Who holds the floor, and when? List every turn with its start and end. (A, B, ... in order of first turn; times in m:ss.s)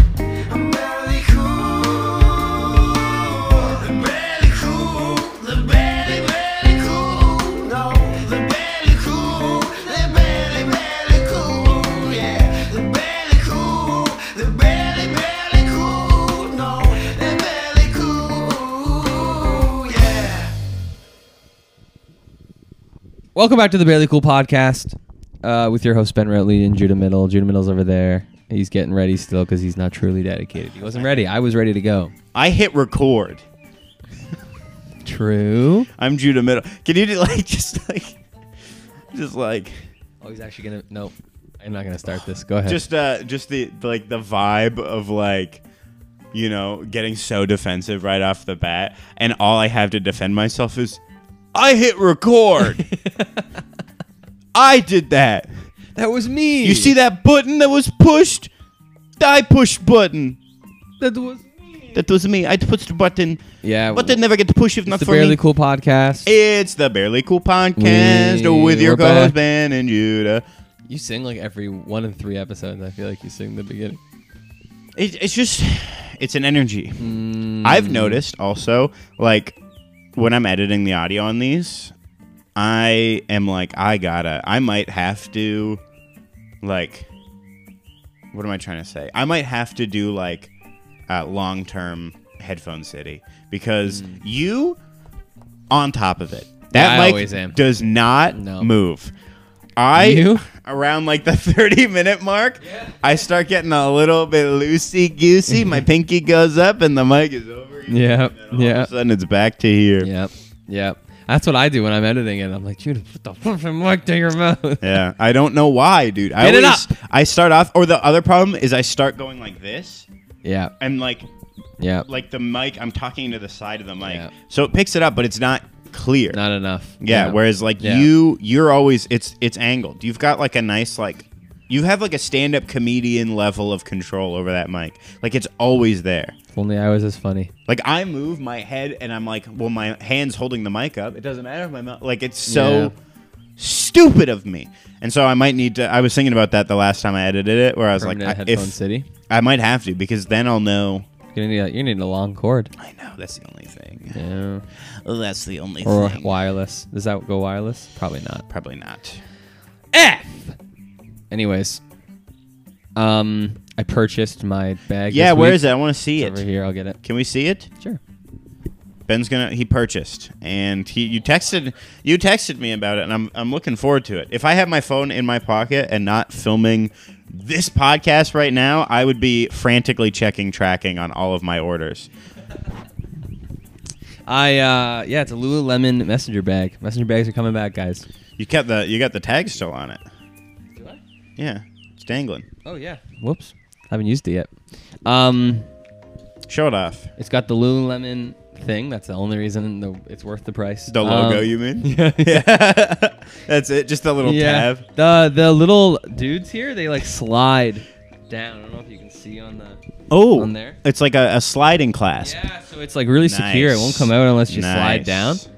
0:00.5-0:20.5 A
0:23.3-0:32.1 B
0:32.3-0:33.4 C
0:35.0-0:35.9 B
0:36.0-0:38.2 C
0:39.1-0:39.9 C
0:40.2-0:42.8 B
0:42.6-0:45.6 C
0:46.3-0:51.0 C
0:51.5-0:52.8 C
0:52.8-0:53.4 B
0:54.5-0:55.5 C
0:55.9-0:57.0 B
0:56.6-0:58.5 C
0:59.2-1:00.4 C
1:01.0-1:02.0 B
1:01.9-1:03.4 C
1:03.6-1:04.2 B
1:03.9-1:05.4 C
1:04.8-1:06.3 B
1:06.2-1:10.4 C
1:07.8-1:09.3 B
1:10.9-1:14.0 B
1:15.0-1:19.6 C
1:17.0-1:18.2 B
1:20.1-1:21.9 C
1:22.6-1:25.8 C
1:26.6-1:27.1 C
1:28.3-1:30.5 C
1:31.1-1:34.8 C
1:33.8-1:34.2 B
1:35.7-1:39.1 C
1:36.7-1:37.6 B
1:38.3-1:38.7 B
1:39.8-1:50.1 C
1:39.9-1:40.4 B
1:42.6-1:43.0 B
1:47.9-1:48.9 B
1:50.0-1:55.0 B
1:54.8-2:00.1 C
1:56.4-1:56.9 B
2:00.4-2:00.7 B
2:00.8-2:01.3 C
2:01.8-2:02.0 B
2:02.0-2:06.4 C
2:04.0-2:04.3 B
2:06.3-2:08.1 B
2:07.0-2:16.3 C
2:16.5-2:17.5 B
2:17.7-2:22.9 C
2:22.5-2:22.9 B
2:23.6-2:28.8 C
2:28.0-2:29.1 B
2:29.3-2:31.0 C
2:31.3-2:32.7 B
2:32.8-2:34.2 C
2:34.1-2:34.6 B
2:35.0-2:36.3 C
2:35.8-2:38.4 B
2:38.5-2:39.2 C
2:39.9-2:40.5 B
2:41.3-2:41.8 B
2:43.0-2:47.0 B
2:45.1-2:46.4 C
2:47.0-2:47.7 C
2:49.1-3:02.1 C
3:04.3-3:08.0 B
3:08.4-3:10.0 C
3:10.7-3:11.0 B
3:11.4-3:12.4 C
3:12.6-3:14.5 B
3:15.0-3:15.7 B
3:16.5-3:17.1 C
3:17.2-3:22.5 B
3:20.9-3:24.8 C
3:24.2-3:29.8 B
3:30.1-3:32.3 C
3:30.3-3:30.8 B
3:32.2-3:35.4 B
3:33.2-3:35.4 C